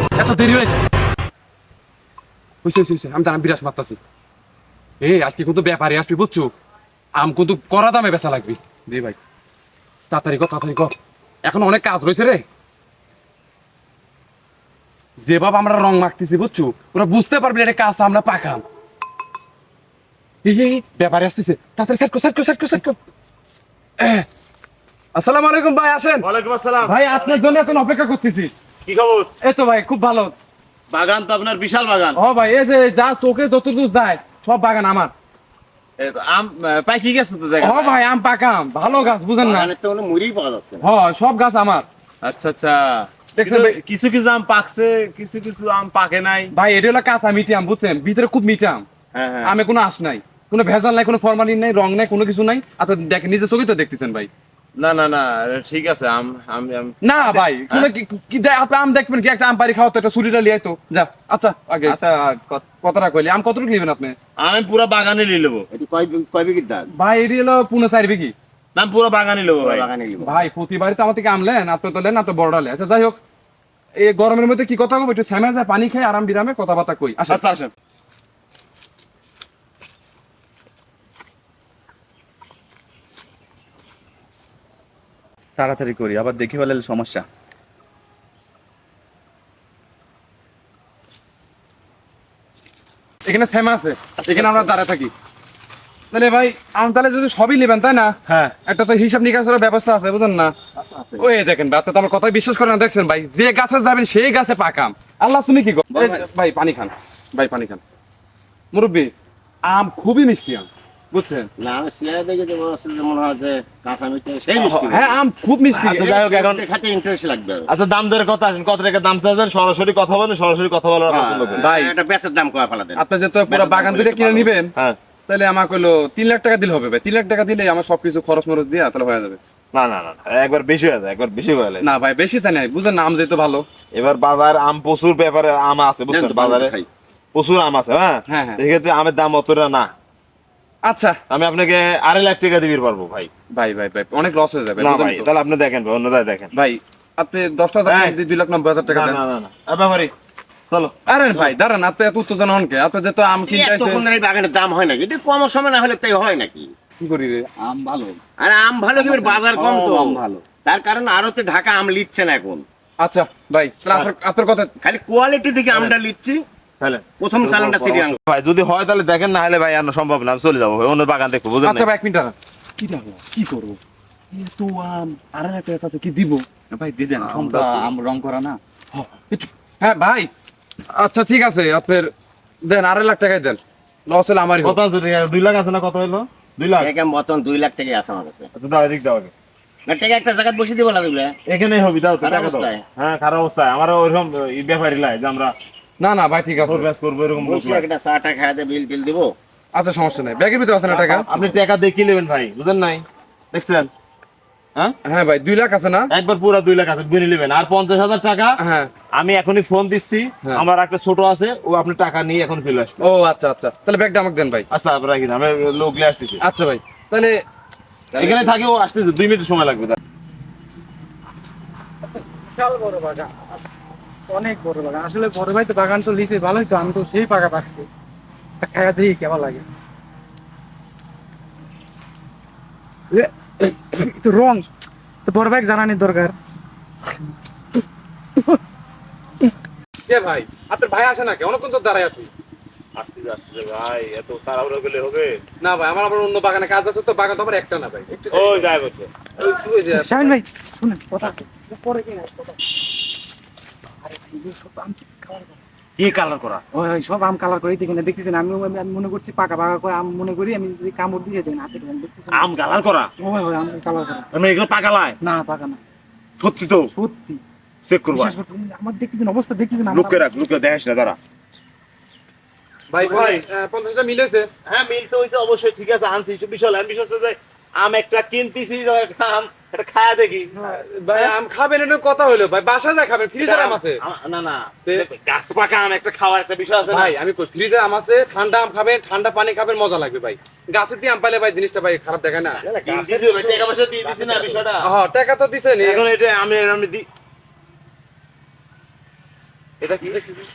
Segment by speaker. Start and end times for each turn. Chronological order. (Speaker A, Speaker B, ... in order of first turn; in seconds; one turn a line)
Speaker A: 0.2-0.8
Speaker A: 2.6-4.0
Speaker A: 5.0-6.5
Speaker A: 7.2-9.2
Speaker A: 10.1-12.4
Speaker A: 15.2-18.6
Speaker A: 20.4-23.0
Speaker A: 24.0-24.2
Speaker A: 25.1-26.2
Speaker B: 26.2-27.8
Speaker A: 26.8-28.5
Speaker B: 28.8-29.3
Speaker A: 29.4-30.3
Speaker B: 30.9-32.2
Speaker A: 32.1-35.1
Speaker B: 36.0-38.0
Speaker A: 37.6-39.7
Speaker C: 39.4-40.8
Speaker A: 40.8-41.9
Speaker B: 42.2-46.5
Speaker A: 43.3-43.8
Speaker A: 46.5-48.8
Speaker B: 49.1-49.6
Speaker A: 49.4-54.3
Speaker B: 54.8-57.9
Speaker A: 57.0-62.0
Speaker B: 61.8-62.6
Speaker A: 62.8-64.2
Speaker B: 64.4-65.7
Speaker C: 65.7-66.9
Speaker A: 66.9-68.3
Speaker B: 68.7-69.9
Speaker C: 69.5-70.4
Speaker A: 70.2-73.2
Speaker A: 74.0-77.4
Speaker B: 77.3-77.7
Speaker D: 85.6-87.2
Speaker A: 93.2-95.1
Speaker B: 94.2-94.7
Speaker A: 96.1-100.5
Speaker B: 98.3-98.5
Speaker B: 100.8-101.2
Speaker A: 101.2-107.8
Speaker B: 105.9-106.2
Speaker A: 108.7-109.1
Speaker A: 109.6-110.7
Speaker B: 111.1-111.4
Speaker C: 111.6-115.2
Speaker A: 114.6-116.2
Speaker C: 115.7-117.7
Speaker B: 115.9-116.6
Speaker B: 117.7-121.7
Speaker C: 121.1-124.5
Speaker A: 121.6-121.9
Speaker A: 123.0-124.7
Speaker B: 124.7-125.0
Speaker A: 125.3-129.4
Speaker B: 129.7-131.9
Speaker A: 131.8-133.6
Speaker B: 133.9-136.7
Speaker C: 136.1-136.9
Speaker B: 137.3-139.9
Speaker A: 138.3-138.6
Speaker A: 140.8-141.2
Speaker B: 141.3-143.3
Speaker A: 143.5-145.3
Speaker B: 144.8-146.5
Speaker A: 146.5-149.2
Speaker B: 147.8-148.2
Speaker B: 148.9-150.1
Speaker B: 150.7-150.9
Speaker A: 151.1-154.0
Speaker C: 153.5-156.7
Speaker A: 157.0-157.5
Speaker D: 157.6-158.2
Speaker C: 158.4-162.6
Speaker B: 159.1-160.2
Speaker D: 159.1-159.4
Speaker A: 163.0-164.7
Speaker C: 164.8-166.4
Speaker B: 166.8-171.9
Speaker C: 167.2-168.2
Speaker A: 171.6-173.8
Speaker A: 174.3-176.5
Speaker D: 177.2-178.6
Speaker B: 177.2-177.9
Speaker A: 179.3-180.3
Speaker A: 180.9-182.1
Speaker A: 182.6-184.8
Speaker B: 184.6-186.9
Speaker C: 186.8-188.5
Speaker B: 188.5-189.3
Speaker C: 189.8-191.4
Speaker B: 191.4-195.5
Speaker C: 192.2-192.8
Speaker A: 196.0-196.9
Speaker B: 196.7-197.8
Speaker C: 197.4-199.3
Speaker A: 199.7-201.4
Speaker B: 200.9-203.9
Speaker A: 205.0-206.1
Speaker B: 206.1-208.6
Speaker A: 208.6-208.9
Speaker B: 209.1-213.0
Speaker A: 213.0-214.6
Speaker B: 214.7-216.4
Speaker A: 216.4-217.3
Speaker B: 218.1-220.0
Speaker E: 222.4-223.3
Speaker E: 224.3-227.8
Speaker E: 228.6-229.6
Speaker E: 233.1-234.6
Speaker E: 235.2-236.3
Speaker A: 240.0-242.3
Speaker B: 242.9-245.4
Speaker A: 245.6-248.7
Speaker B: 248.3-249.1
Speaker A: 249.4-250.4
Speaker E: 249.9-252.6
Speaker E: 254.0-255.6
Speaker B: 256.0-256.6
Speaker E: 256.7-262.5
Speaker B: 262.3-263.1
Speaker E: 263.2-264.3
Speaker B: 264.3-265.2
Speaker E: 265.2-265.8
Speaker B: 266.4-266.9
Speaker E: 266.9-267.4
Speaker B: 267.8-268.3
Speaker E: 268.1-270.3
Speaker B: 269.9-271.2
Speaker A: 272.9-274.5
Speaker B: 273.0-273.4
Speaker B: 274.6-280.6
Speaker A: 280.6-284.0
Speaker B: 283.4-287.1
Speaker A: 286.9-292.6
Speaker C: 292.6-294.6
Speaker B: 292.8-294.8
Speaker A: 294.8-296.0
Speaker B: 295.8-297.1
Speaker B: 299.8-300.3